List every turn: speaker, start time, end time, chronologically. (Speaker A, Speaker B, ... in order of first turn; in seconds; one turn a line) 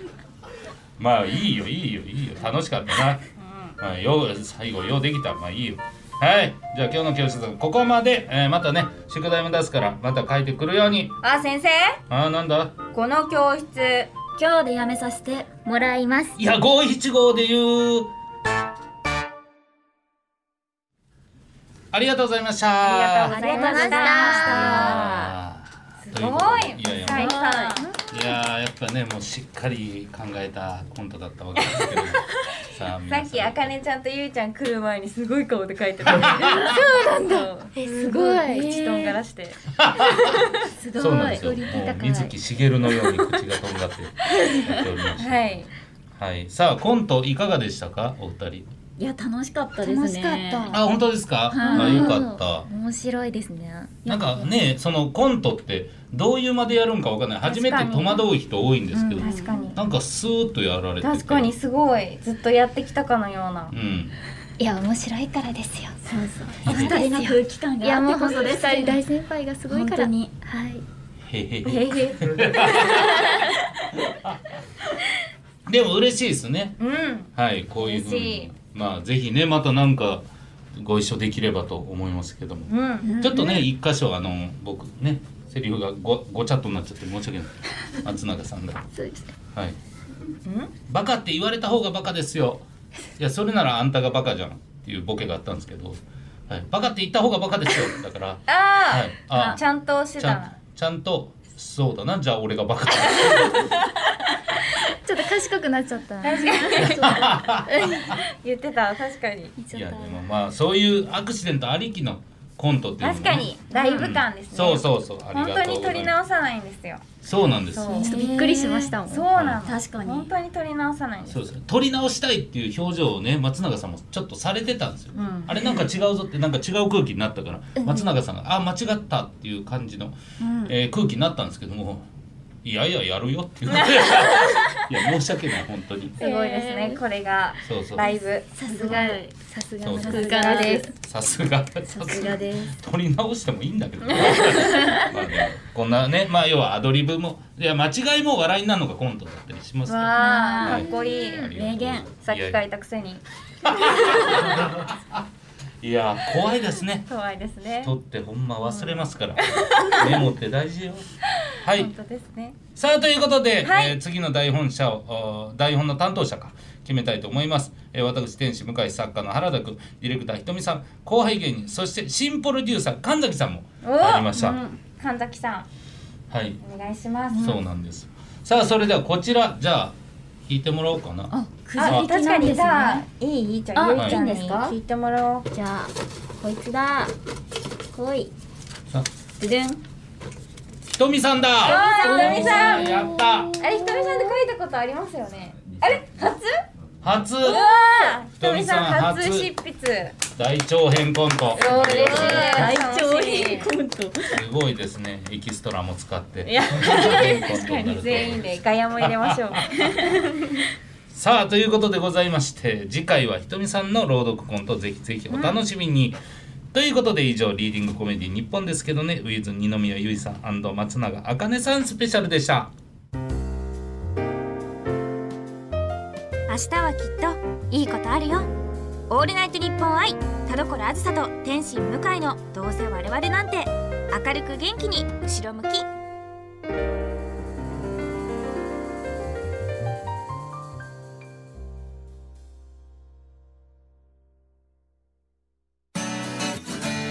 Speaker A: 1.0-3.2
Speaker B: 3.4-3.8
Speaker A: 3.8-11.2
Speaker B: 11.2-12.0
Speaker A: 12.1-12.8
Speaker B: 12.9-14.1
Speaker C: 14.4-15.5
Speaker D: 15.7-16.4
Speaker A: 16.4-18.1
Speaker A: 21.9-23.4
Speaker B: 22.8-25.1
Speaker C: 23.3-25.3
Speaker D: 23.5-25.0
Speaker A: 24.5-27.4
Speaker B: 26.1-27.9
Speaker C: 27.1-27.8
Speaker A: 28.1-33.7
Speaker B: 33.1-37.7
Speaker A: 36.1-36.8
Speaker C: 36.5-39.2
Speaker D: 37.8-38.9
Speaker B: 38.5-40.7
Speaker A: 39.8-45.5
Speaker C: 40.8-41.5
Speaker D: 41.0-42.4
Speaker B: 45.2-45.7
Speaker A: 46.2-48.7
Speaker C: 49.0-50.8
Speaker D: 49.8-50.8
Speaker A: 50.7-52.7
Speaker C: 51.5-52.2
Speaker D: 51.6-54.0
Speaker B: 51.7-52.0
Speaker A: 54.1-61.5
Speaker B: 57.4-58.3
Speaker D: 59.0-59.7
Speaker C: 59.2-59.5
Speaker B: 59.2-59.8
Speaker B: 61.0-63.7
Speaker A: 63.7-64.2
Speaker D: 64.6-66.0
Speaker C: 66.1-69.0
Speaker D: 66.6-70.8
Speaker A: 66.6-67.0
Speaker C: 69.7-70.3
Speaker A: 71.2-73.4
Speaker B: 71.7-73.2
Speaker A: 74.0-74.4
Speaker A: 75.7-76.8
Speaker B: 76.8-78.5
Speaker A: 77.3-88.9
Speaker B: 82.7-83.4
Speaker D: 88.9-89.3
Speaker B: 90.5-90.7
Speaker A: 90.9-92.6
Speaker A: 93.2-99.6
Speaker B: 98.5-100.6
Speaker A: 100.2-103.8
Speaker B: 103.2-103.7
Speaker D: 104.8-108.1
Speaker B: 106.2-107.2
Speaker A: 106.7-108.2
Speaker B: 108.0-109.6
Speaker D: 109.6-110.2
Speaker A: 109.7-116.1
Speaker B: 113.0-117.1
Speaker A: 117.2-118.0
Speaker B: 117.7-118.2
Speaker D: 117.9-119.0
Speaker C: 118.0-120.3
Speaker B: 119.0-121.5
Speaker A: 119.3-119.6
Speaker A: 121.3-132.1
Speaker B: 125.2-125.8
Speaker D: 127.8-128.1
Speaker C: 130.4-130.7
Speaker A: 132.6-136.2
Speaker B: 136.2-139.2
Speaker C: 136.2-137.0
Speaker D: 136.5-136.8
Speaker A: 137.7-138.1
Speaker D: 138.6-140.9
Speaker C: 138.7-139.3
Speaker A: 139.8-140.4
Speaker C: 139.9-140.9
Speaker B: 140.2-140.8
Speaker A: 140.9-152.6
Speaker D: 141.9-142.7
Speaker C: 142.0-142.5
Speaker B: 149.9-151.5
Speaker C: 150.2-152.1
Speaker D: 150.7-151.3
Speaker B: 152.2-154.6
Speaker A: 153.6-155.3
Speaker A: 155.8-157.1
Speaker B: 157.1-157.9
Speaker A: 157.8-161.1
Speaker B: 158.7-160.2
Speaker A: 161.6-161.9
Speaker B: 161.7-162.6
Speaker A: 162.8-174.6
Speaker B: 163.6-164.0
Speaker B: 173.8-174.3
Speaker C: 174.3-174.8
Speaker B: 174.9-175.7
Speaker A: 176.3-176.6
Speaker B: 176.6-177.6
Speaker A: 177.3-180.0
Speaker A: 180.5-182.1
Speaker C: 181.3-183.0
Speaker B: 181.8-185.5
Speaker D: 182.2-183.0
Speaker D: 183.8-184.7
Speaker C: 183.8-184.4
Speaker A: 183.9-184.2
Speaker C: 185.5-187.1
Speaker D: 187.9-188.3
Speaker C: 189.4-189.8
Speaker A: 190.9-193.5
Speaker B: 191.6-192.9
Speaker C: 191.6-194.3
Speaker D: 192.0-193.2
Speaker B: 193.6-196.6
Speaker A: 197.0-197.6
Speaker B: 197.4-200.2
Speaker C: 197.4-198.2
Speaker A: 198.4-199.5
Speaker A: 200.3-202.8
Speaker B: 201.6-203.7
Speaker C: 201.7-204.4
Speaker A: 204.3-210.0
Speaker B: 206.4-210.6
Speaker A: 211.1-216.2
Speaker B: 215.3-215.6
Speaker A: 216.7-222.7
Speaker B: 226.5-228.5
Speaker B: 229.1-235.9